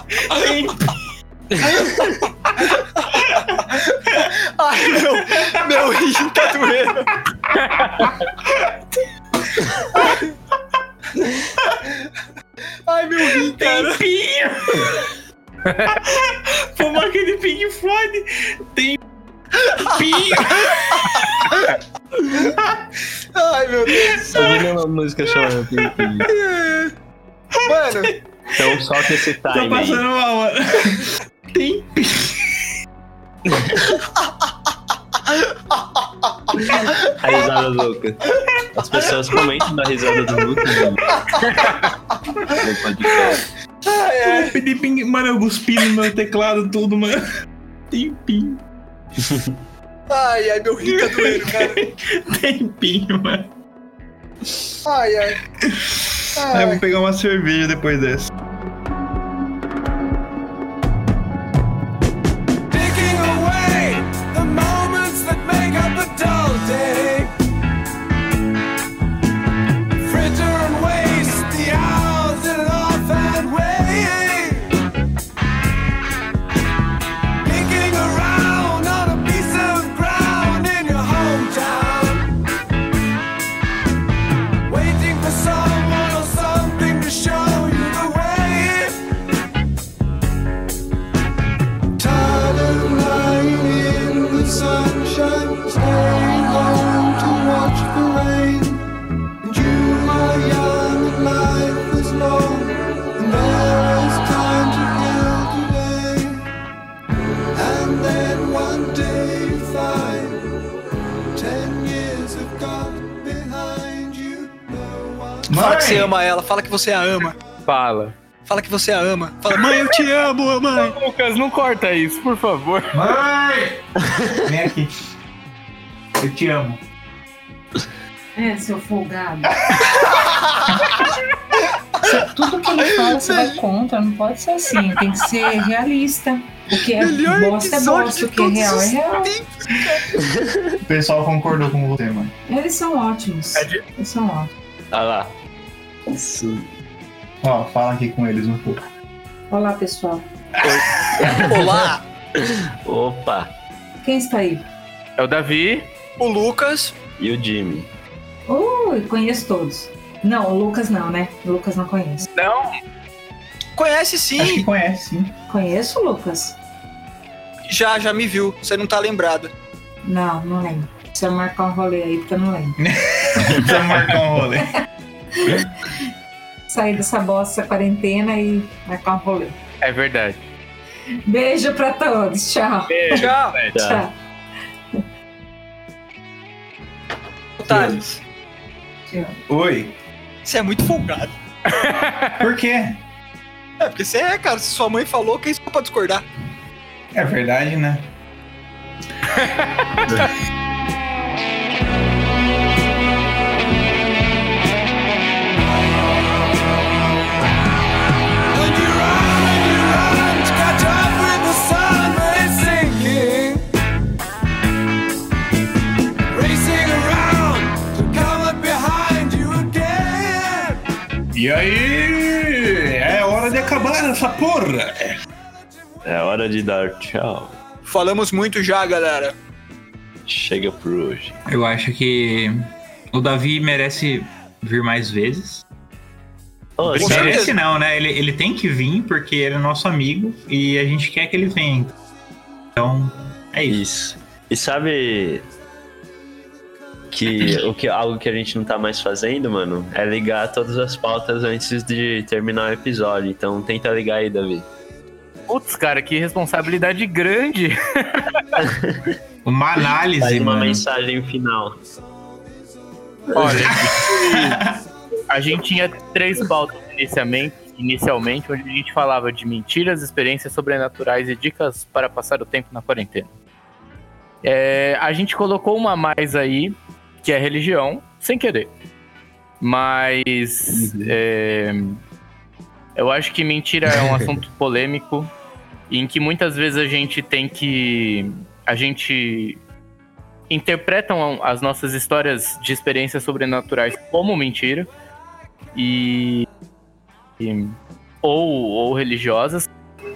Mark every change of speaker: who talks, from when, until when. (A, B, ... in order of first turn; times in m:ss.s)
0:00.2-0:01.0 A
0:01.5-0:02.3 B
0:03.0-0:07.2 C
0:03.1-0:04.2 A
0:05.2-0:05.6 A
0:07.6-0:08.3 D
0:08.0-0:08.8 A
0:09.5-0:10.2 A
0:11.2-0:11.5 B
0:11.6-0:12.0 A
0:12.9-0:14.0 C
0:13.2-0:15.2 A
0:15.6-0:16.0 D
0:15.9-0:19.0 A
0:19.6-0:21.7 A
0:20.5-0:21.2 C
0:22.3-0:22.8 A
0:23.4-0:24.6 C
0:23.9-0:24.5 A
0:24.3-0:26.3 B
0:25.3-0:26.1 A
0:26.2-0:26.9 C
0:27.6-0:28.8 A
0:27.7-0:28.1 C
0:28.6-0:30.0 B
0:29.5-0:32.7 A
0:33.5-0:34.0 B
0:37.0-0:38.2 B
0:38.7-0:41.2 B
0:41.1-0:41.6 C
0:42.5-0:43.5 B
0:43.8-0:44.6 C
0:44.2-0:47.2 A
0:47.9-0:48.6 A
0:49.2-0:49.6 B
0:50.1-0:51.8 C
0:50.8-0:53.5 A
0:54.8-0:55.4 C
0:55.6-0:58.3 A
0:56.4-0:56.8 C
1:02.7-1:07.3 E
1:10.0-1:14.7 E
1:17.4-1:22.3 E
1:24.7-1:29.0 E
1:32.0-1:38.8 E
1:39.4-1:46.4 E
1:47.6-1:50.4 E
1:51.4-1:55.6 E
1:55.5-1:56.1 A
1:55.5-1:57.4 C
1:57.7-1:58.2 D
1:58.5-2:00.9 C
2:00.7-2:03.0 D
2:02.9-2:03.9 A
2:04.4-2:04.9 A
2:06.2-2:06.8 A
2:08.4-2:09.6 F
2:09.9-2:10.7 C
2:12.0-2:19.3 F
2:13.1-2:13.6 C
2:16.8-2:20.2 C
2:20.2-2:20.8 B
2:20.9-2:22.3 A
2:22.5-2:24.5 F
2:23.6-2:23.8 D
2:24.9-2:25.3 B
2:26.1-2:26.7 B
2:27.4-2:28.8 A
2:29.5-2:30.2 F
2:30.6-2:31.5 A
2:30.6-2:33.5 B
2:31.4-2:32.0 C
2:34.0-2:34.6 F
2:35.2-2:35.9 D
2:36.2-2:36.9 C
2:37.2-2:37.9 B
2:38.5-2:42.3 F
2:42.4-2:42.8 D
2:43.8-2:44.6 C
2:44.4-2:45.4 A
2:45.5-2:46.6 F
2:47.7-2:49.5 C
2:50.0-2:52.8 F
2:52.8-2:54.8 A
2:55.4-2:55.6 F
2:56.7-2:59.6 F
2:59.8-3:00.5 D
3:01.3-3:04.1 F
3:02.9-3:03.8 D
3:03.1-3:03.6 C
3:03.7-3:04.0 B
3:07.6-3:08.2 C
3:07.7-3:08.0 A
3:09.1-3:09.4 F
3:09.5-3:10.0 A
3:10.4-3:11.4 C
3:11.7-3:12.4 D
3:12.4-3:13.0 A
3:13.8-3:16.2 C
3:17.1-3:18.1 A
3:19.3-3:20.3 D
3:20.1-3:20.3 B
3:28.5-3:33.6 E
3:36.3-3:40.8 E
3:41.3-3:45.2 A
3:46.0-3:47.6 B
3:47.9-3:49.4 C
3:50.3-3:51.4 B
3:51.5-3:55.6 A
3:56.8-3:57.5 B
3:56.8-4:01.9 A
3:57.0-3:57.6 C
4:02.8-4:03.8 A
4:03.7-4:05.5 B
4:07.1-4:14.7 B
4:15.5-4:18.4 D
4:18.6-4:19.2 B
4:19.4-4:20.8 A
4:20.2-4:21.8 B
4:23.3-4:23.8 B
4:23.3-4:24.6 D
4:23.7-4:24.8 A
4:25.3-4:33.3 D
4:34.4-4:38.7 D
4:39.6-4:42.0 D
4:40.7-4:41.1 B
4:43.0-4:45.3 D
4:43.9-4:44.3 B
4:45.9-4:49.6 D
4:50.5-4:54.9 D
4:55.8-4:56.5 D
4:57.4-4:59.7 D